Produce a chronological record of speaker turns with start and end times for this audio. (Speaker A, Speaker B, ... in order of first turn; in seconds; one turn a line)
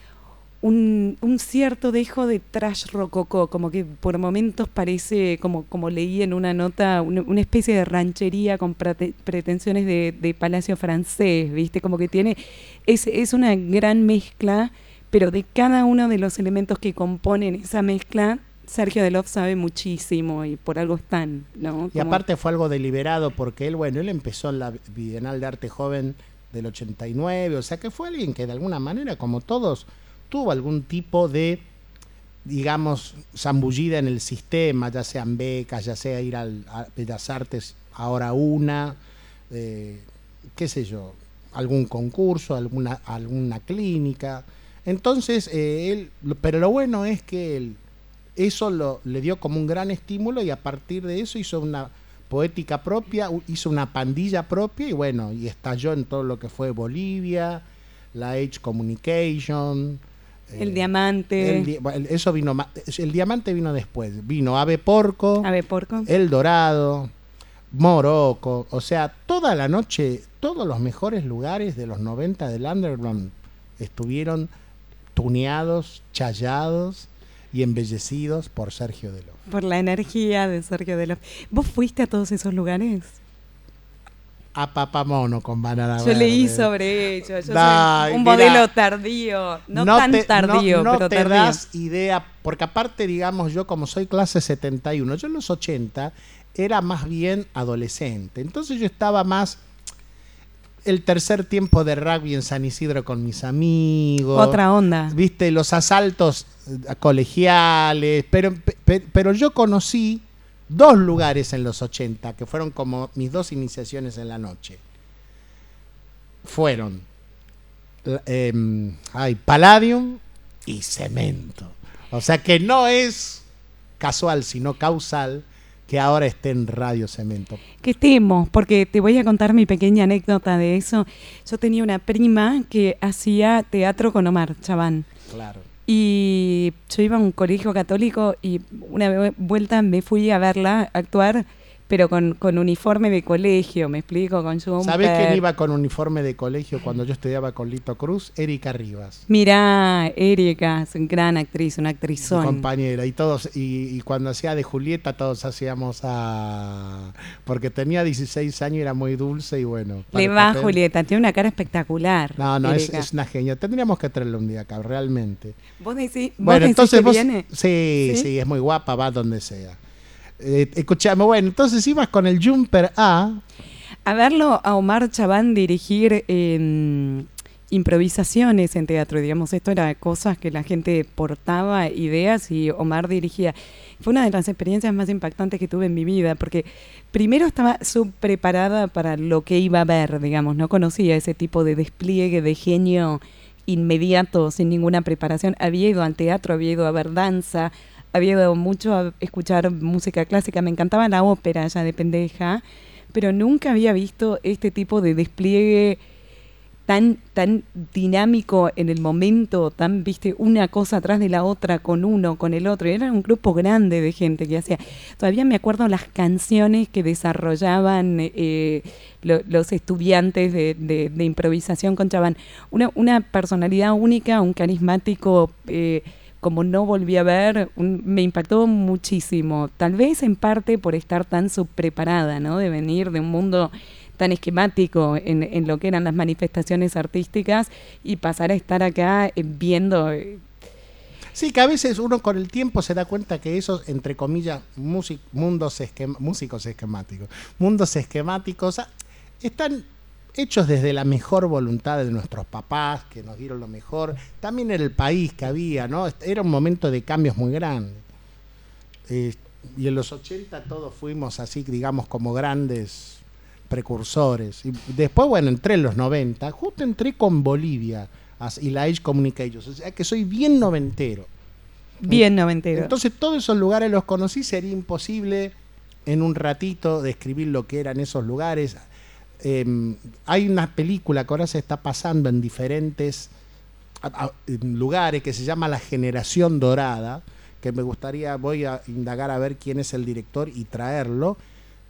Speaker A: 0.6-22.2
Speaker B: 21.9-31.6
Speaker B: 32.5-39.0
Speaker B: 39.5-47.8
Speaker B: 48.4-65.5
Speaker A: 60.6-61.7
Speaker A: 65.4-66.1
Speaker B: 66.1-67.1
Speaker B: 67.7-74.5
Speaker B: 75.1-79.4
Speaker A: 79.5-83.2
Speaker B: 84.5-86.7
Speaker A: 86.0-91.6
Speaker B: 87.4-88.7
Speaker B: 89.7-99.6
Speaker B: 100.8-114.8
Speaker A: 104.3-105.2
Speaker B: 116.4-117.1
Speaker B: 118.0-123.5
Speaker B: 124.0-127.6
Speaker A: 127.8-135.1
Speaker B: 135.3-135.7
Speaker A: 135.9-145.4
Speaker B: 144.8-149.2
Speaker A: 149.3-152.7
Speaker B: 152.2-160.8
Speaker A: 160.1-163.1
Speaker B: 162.4-165.6
Speaker A: 165.8-167.5
Speaker B: 166.4-169.8
Speaker A: 168.0-168.3
Speaker B: 170.4-173.4
Speaker A: 174.1-202.6
Speaker A: 203.1-206.0
Speaker A: 206.9-240.4
Speaker B: 241.3-258.1
Speaker B: 259.1-271.3
Speaker A: 272.0-272.9
Speaker B: 272.0-275.6
Speaker B: 276.1-278.9
Speaker B: 279.4-283.3
Speaker B: 284.0-291.4